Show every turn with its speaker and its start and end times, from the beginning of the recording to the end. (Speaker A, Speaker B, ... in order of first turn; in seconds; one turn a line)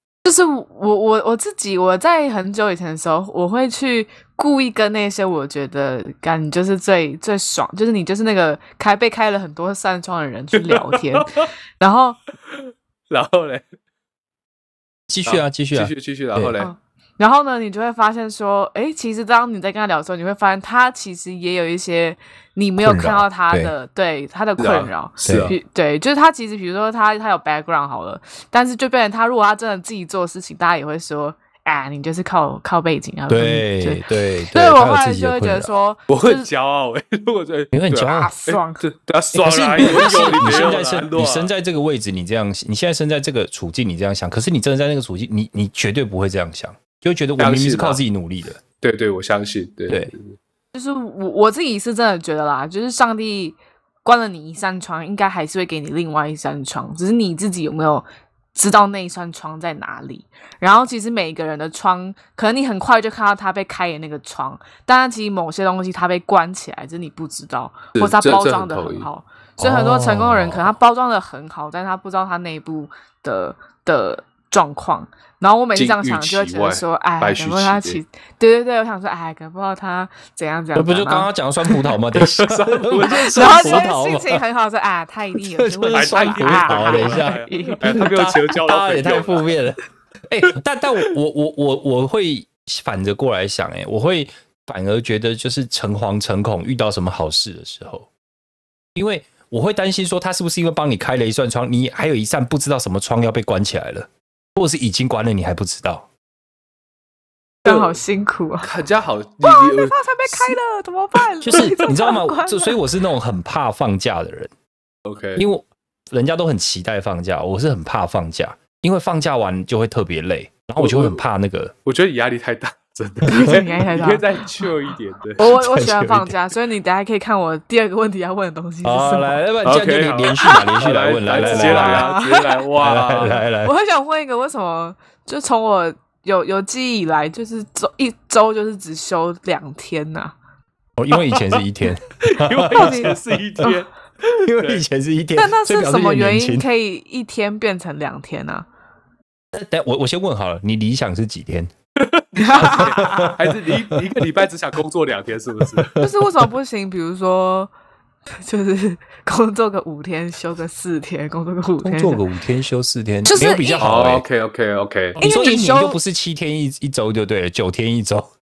Speaker A: 0.2-12.2
Speaker B: 10.6-11.4
Speaker B: 12.5-13.6
Speaker C: 15.1-16.6
Speaker B: 15.2-16.7
Speaker A: 16.6-36.5
Speaker C: 22.8-23.7
Speaker B: 24.6-25.6
Speaker C: 25.2-25.5
Speaker C: 33.3-35.7
Speaker B: 36.1-41.5
Speaker C: 37.7-38.3
Speaker A: 38.0-38.8
Speaker C: 39.3-48.6
Speaker A: 39.8-40.8
Speaker B: 47.4-48.0
Speaker B: 48.8-50.4
Speaker A: 50.7-81.8
Speaker B: 68.0-69.1
Speaker C: 69.6-70.6
Speaker B: 75.7-78.0
Speaker C: 80.7-84.4
Speaker B: 82.2-83.9
Speaker A: 83.1-88.0
Speaker C: 85.6-98.1
Speaker B: 85.9-89.5
Speaker C: 98.9-106.1
Speaker A: 107.6-108.7
Speaker B: 107.7-108.0
Speaker B: 108.6-110.5
Speaker A: 109.4-112.8
Speaker C: 111.4-114.5
Speaker B: 115.0-115.4
Speaker C: 115.4-121.7
Speaker B: 120.8-121.2
Speaker B: 121.8-125.5
Speaker A: 123.2-124.6
Speaker A: 125.4-129.4
Speaker C: 125.4-126.3
Speaker C: 128.8-132.1
Speaker B: 129.6-133.4
Speaker A: 130.3-130.8
Speaker A: 131.3-132.6
Speaker C: 132.8-133.7
Speaker A: 133.2-140.3
Speaker C: 141.0-143.7
Speaker B: 142.2-143.9
Speaker A: 142.7-143.2
Speaker C: 144.4-146.7
Speaker B: 144.6-144.8
Speaker A: 145.3-148.7
Speaker C: 149.5-151.7
Speaker B: 152.0-155.9
Speaker A: 152.4-153.4
Speaker C: 152.5-154.2
Speaker C: 155.6-156.1
Speaker A: 156.0-157.7
Speaker A: 158.3-162.2
Speaker C: 161.8-164.2
Speaker A: 163.2-163.9
Speaker B: 163.8-165.2
Speaker C: 165.2-168.3
Speaker A: 165.2-166.0